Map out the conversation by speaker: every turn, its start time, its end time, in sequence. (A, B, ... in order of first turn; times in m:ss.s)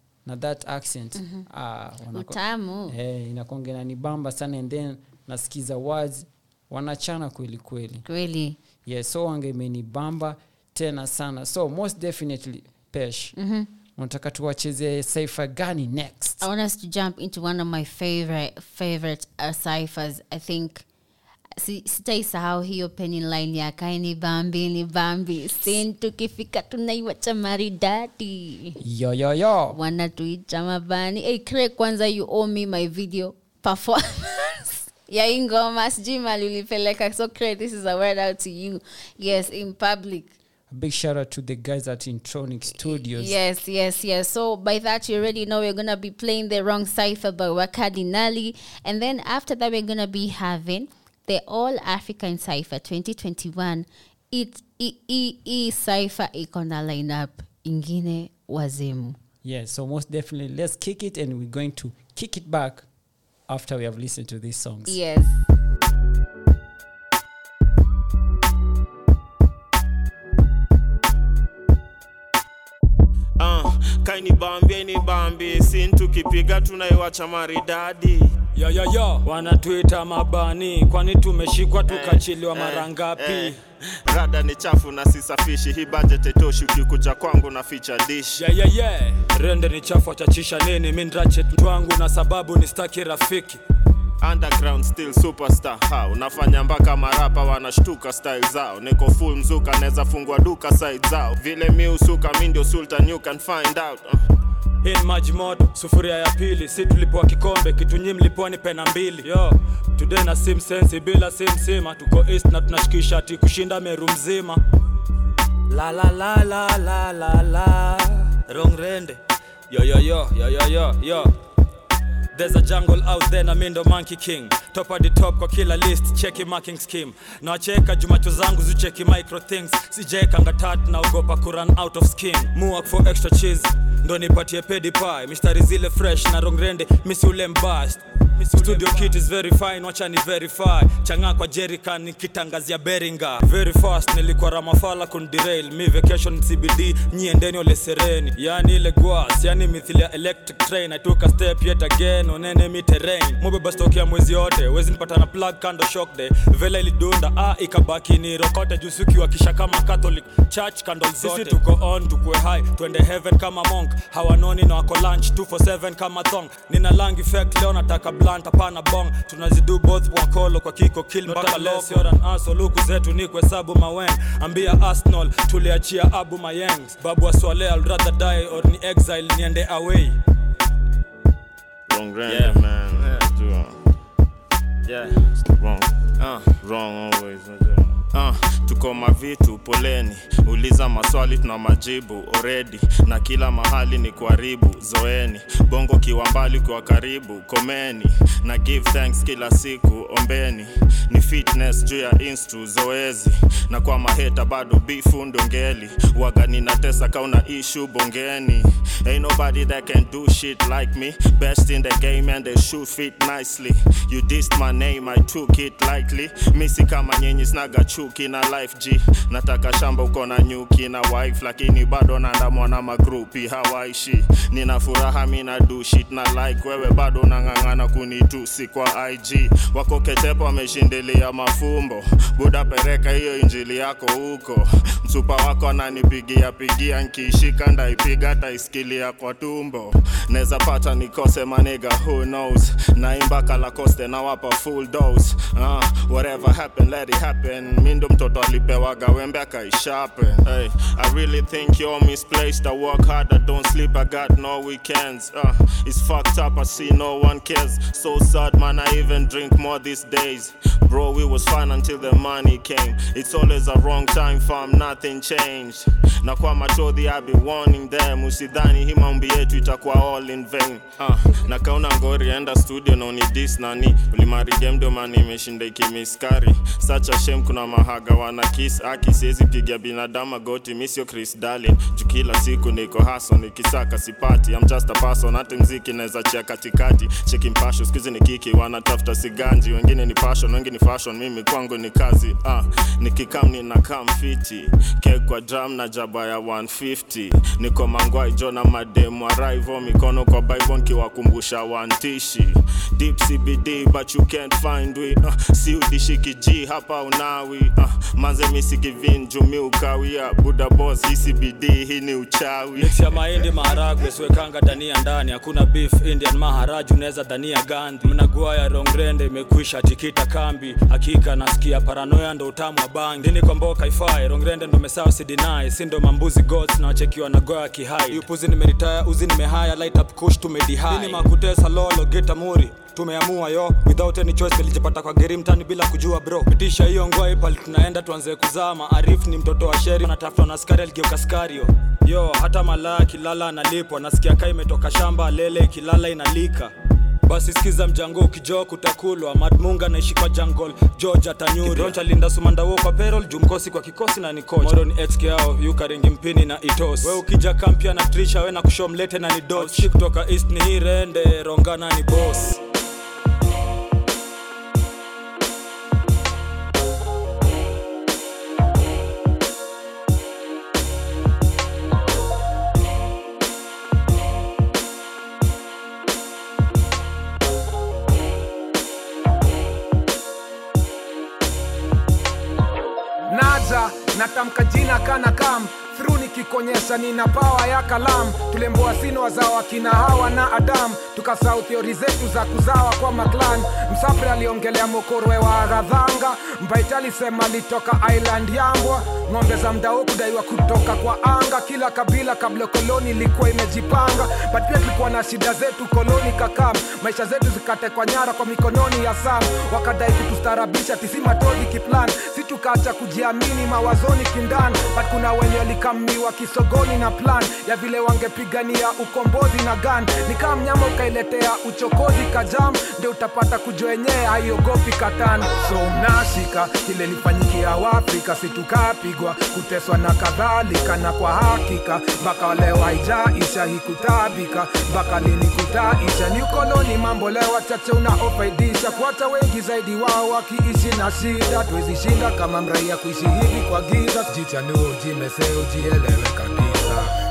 0:00.2-0:08.0 A
0:01.1-0:01.4 B
0:02.1-0:02.9 B
0:08.0-0:08.6 B
0:08.8-0:13.3 A
0:13.4-0:13.7 B
0:14.0-0:16.4 A
0:16.4-0:20.8 B
0:21.6-0:28.8 B
0:28.8-0:29.8 A
0:29.7-0:40.3 B
0:40.7-0:43.4 A
0:42.9-0:59.2 B
0:59.4-1:02.9 A
1:03.5-1:05.0 A
1:04.9-1:05.4 B
1:13.4-1:18.4 C
1:18.6-1:23.6 D
1:21.9-1:28.4 C
1:28.3-1:33.6 D
1:34.2-1:44.2 C
1:44.8-1:54.6 D
1:55.7-1:59.2 D
1:59.7-2:01.3 D
2:02.3-3:00.2 D
3:01.9-3:03.7 C
3:04.9-5:13.0 C
5:12.8-5:46.7 D
5:47.2-6:02.6 D
6:23.3-7:27.1 E